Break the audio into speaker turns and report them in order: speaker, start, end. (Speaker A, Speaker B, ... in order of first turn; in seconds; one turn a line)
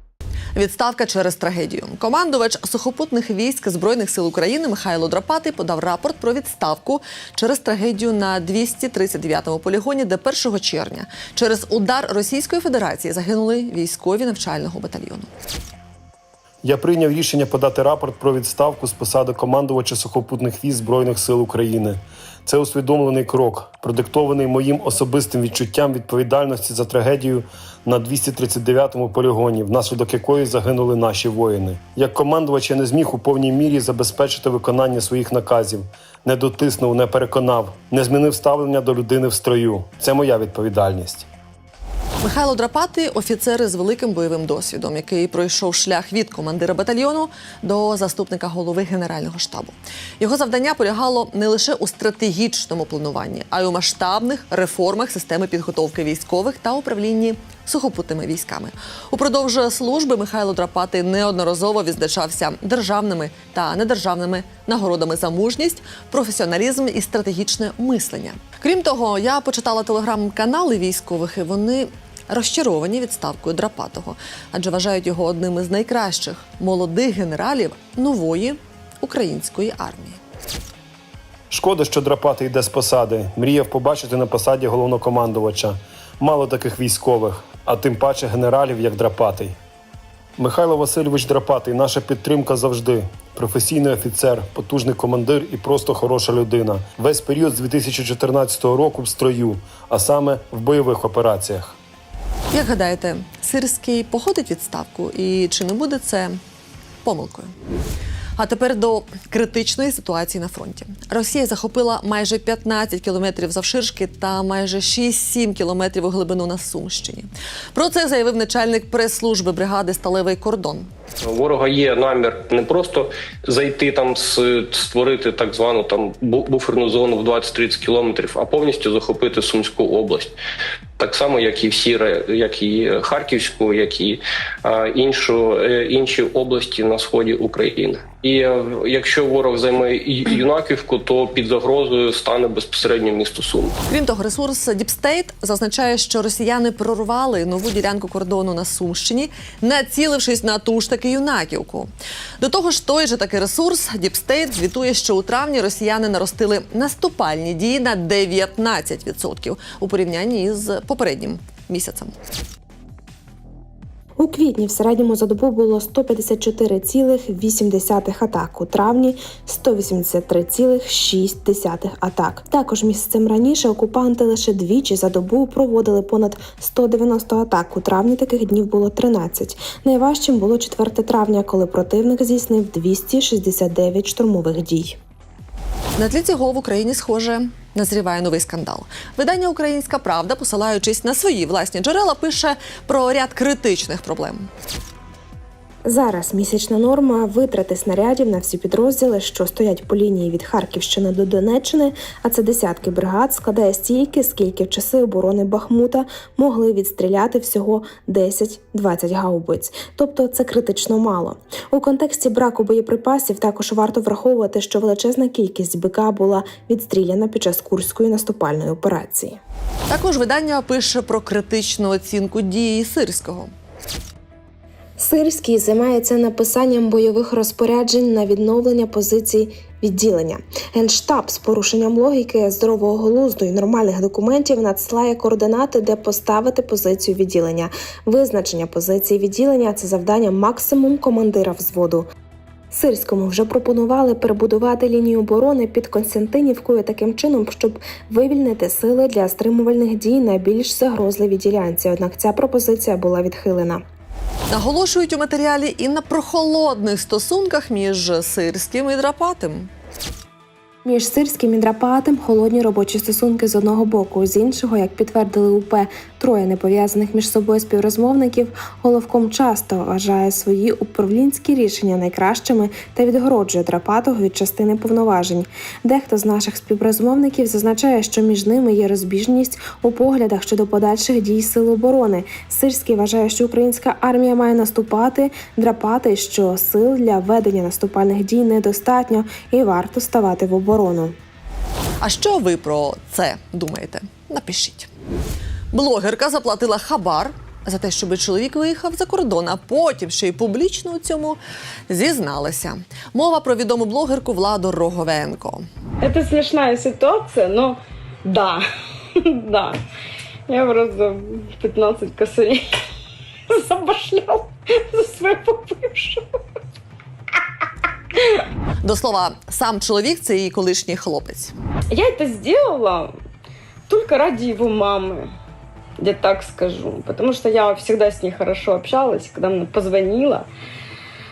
Speaker A: 0.6-15.3
Speaker B: 16.6-41.3
Speaker A: 42.2-80.2
Speaker B: 81.5-89.5
Speaker B: 90.4-101.8
Speaker A: 102.5-106.4
Speaker A: 107.0-107.5
Speaker A: 108.4-120.9
Speaker C: 121.2-130.3
Speaker C: 131.0-143.7
Speaker A: 143.9-162.1
Speaker D: 164.2-185.0
Speaker A: 186.0-194.5
Speaker D: 195.8-219.4
Speaker A: 219.9-223.5
Speaker D: 225.0-242.1
Speaker D: 242.7-253.8
Speaker A: 254.5-259.7
Speaker D: 260.8-291.1
Speaker A: 292.0-294.9
Speaker A: 295.7-305.6
Speaker E: 306.0-308.6
Speaker E: 309.1-309.8
Speaker E: 310.5-312.6
Speaker E: 313.5-316.4
Speaker A: 318.8-321.5
Speaker E: 321.9-323.1
Speaker E: 323.9-325.3
Speaker E: 326.0-330.5